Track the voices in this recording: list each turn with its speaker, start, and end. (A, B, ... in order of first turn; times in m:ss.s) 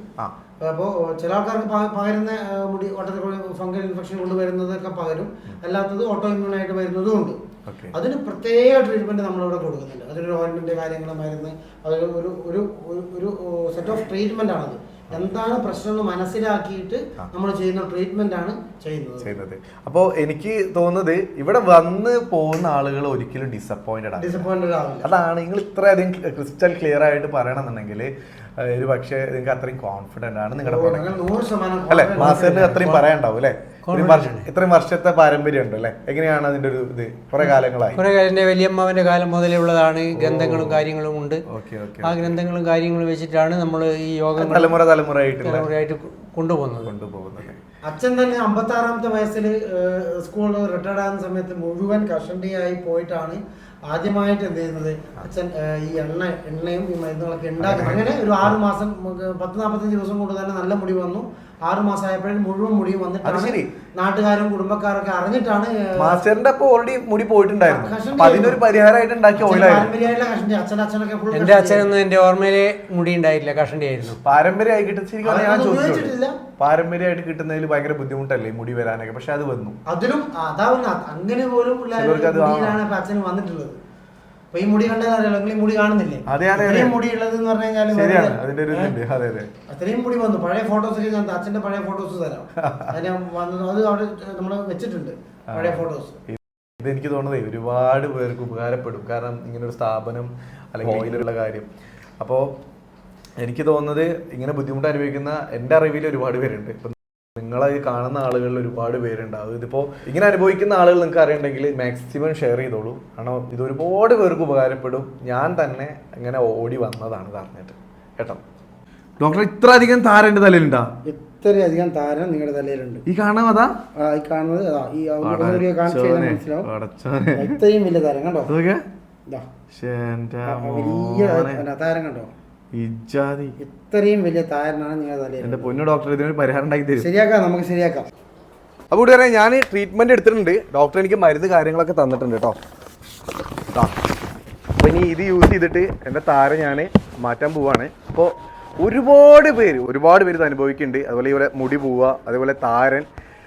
0:00.6-0:07.4 A
0:07.7-0:07.9 B
0:07.9-0:19.4 A
0:19.2-0:24.5 B
0:24.2-0:25.1 A
0:25.0-0:31.2 B
0:30.6-0:33.1 A
0:31.9-0:38.0 B
0:33.8-0:34.5 C
0:37.4-0:41.4 C
0:40.1-0:40.8 B
0:41.5-0:42.4 B
0:42.0-0:44.8 C
0:44.4-0:45.7 B
0:45.4-0:46.9 C
0:46.8-0:47.6 B
0:47.9-1:06.2 A
0:57.6-0:58.5 B
1:03.2-1:03.7 B
1:06.0-1:09.9 B
1:07.7-1:08.6 A
1:09.3-1:12.0 A
1:11.3-1:14.2 C
1:14.2-1:19.8 B
1:15.2-1:16.4 A
1:19.9-1:23.8 A
1:21.9-1:22.8 B
1:24.5-1:29.0 A
1:26.3-1:27.0 B
1:27.9-1:29.5 B
1:29.7-1:36.2 A
1:32.6-1:32.9 B
1:35.5-1:41.7 B
1:42.2-1:42.6 B
1:43.4-1:58.4 B
1:59.2-2:00.9 B
2:01.0-2:03.0 A
2:03.1-2:03.8 B
2:03.9-2:06.7 A
2:05.2-2:07.6 B
2:07.4-2:08.5 A
2:08.5-2:08.8 B
2:09.7-2:11.6 B
2:10.4-2:12.3 A
2:12.7-2:13.6 B
2:13.6-2:15.8 A
2:15.4-2:17.1 B
2:17.0-2:18.1 A
2:18.9-2:22.6 B
2:24.8-2:33.1 B